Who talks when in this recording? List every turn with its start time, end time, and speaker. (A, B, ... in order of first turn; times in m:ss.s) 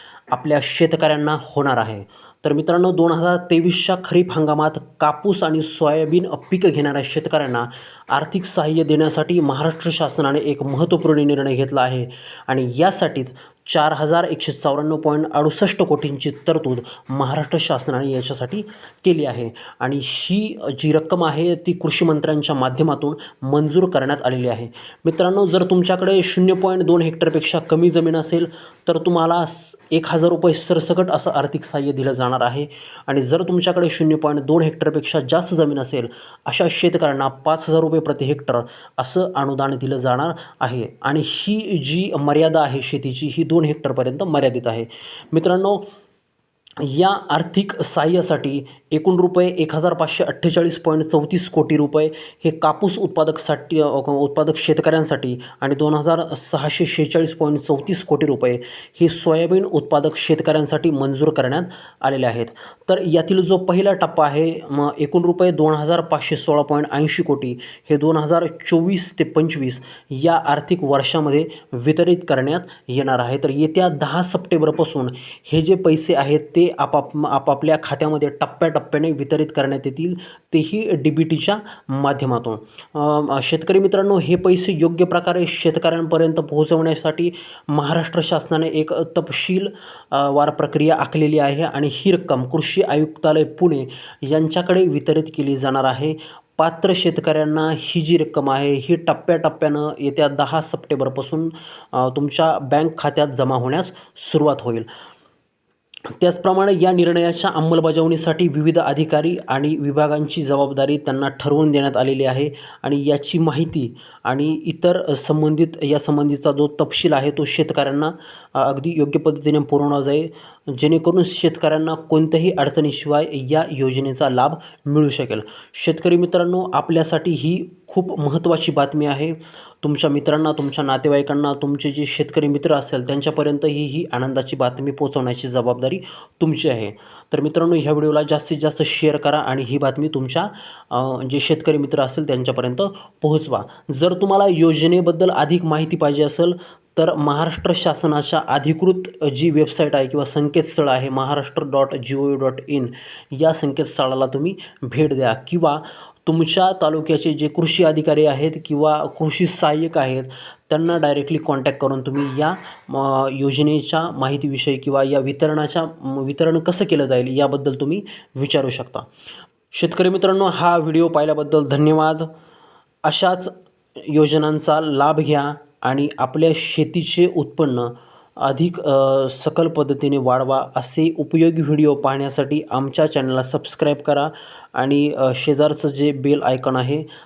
0:00.3-0:45.9 A
0:46.8-1:44.9 A
1:46.1-2:49.1 A
2:49.7-2:52.3 A
2:53.0-3:07.1 A